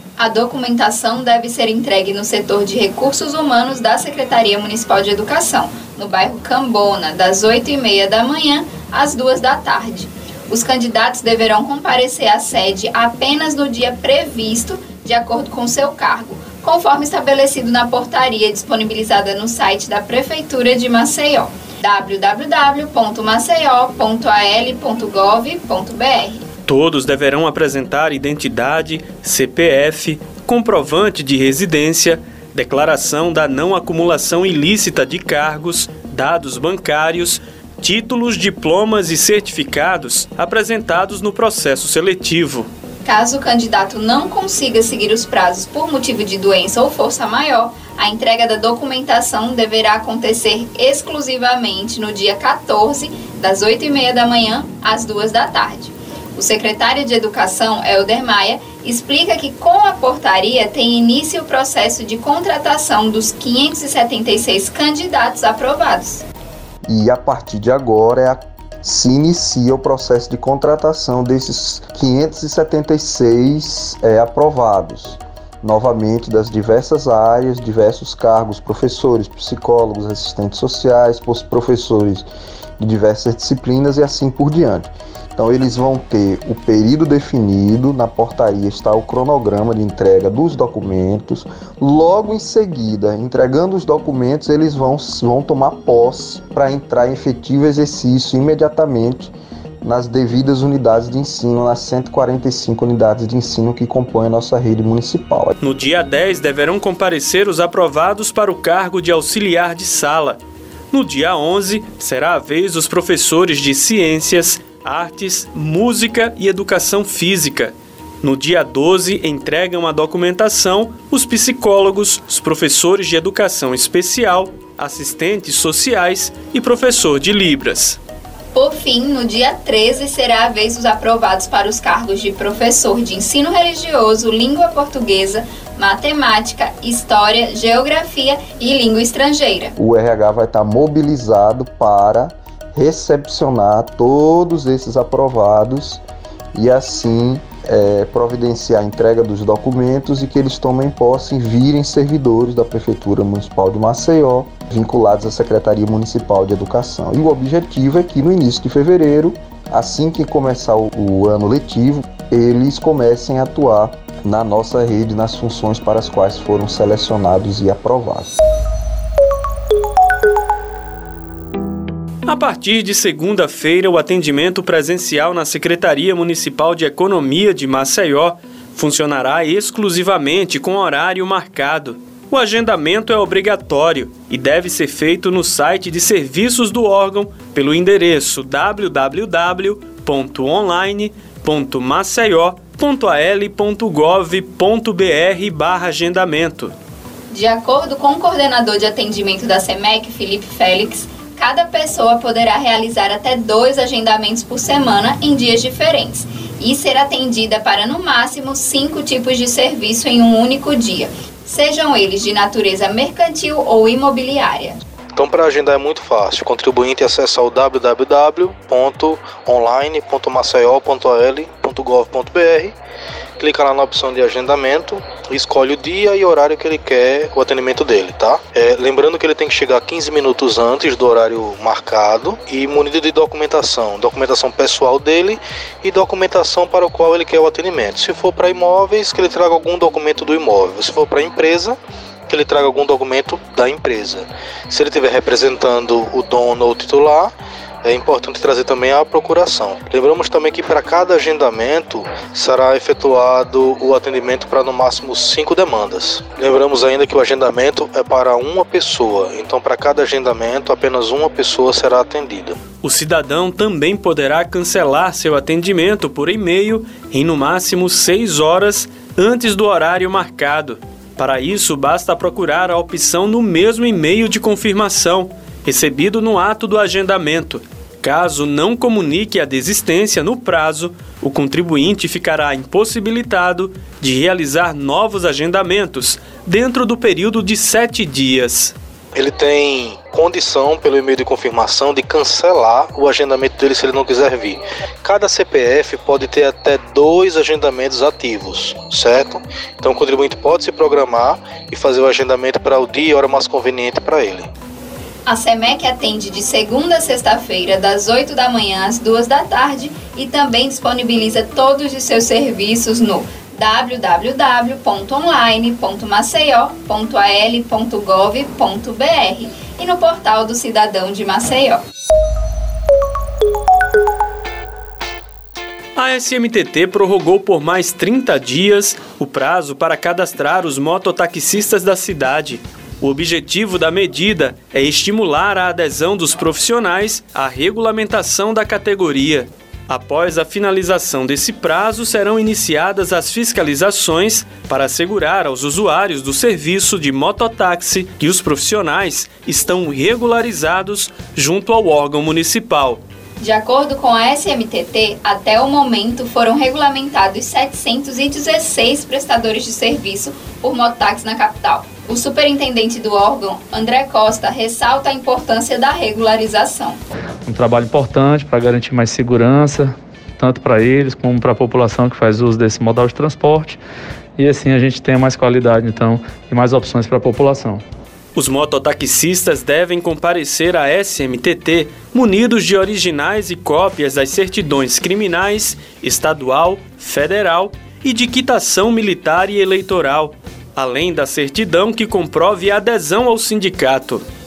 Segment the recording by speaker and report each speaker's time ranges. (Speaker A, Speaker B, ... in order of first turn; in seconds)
Speaker A: 0.2-26.5, 43.0-66.2, 128.5-139.7, 197.3-214.8, 305.3-321.8, 353.4-367.0
Speaker B: 26.7-42.7, 105.6-110.4, 110.9-128.0, 172.3-196.7, 262.8-288.8, 326.0-353.0, 378.4-394.2
Speaker C: 66.9-82.3, 82.8-105.5, 139.8-146.0, 146.5-168.3
Speaker D: 215.2-222.8, 223.4-247.3, 247.8-262.6, 289.1-304.5
Speaker E: 367.4-373.8, 374.4-377.8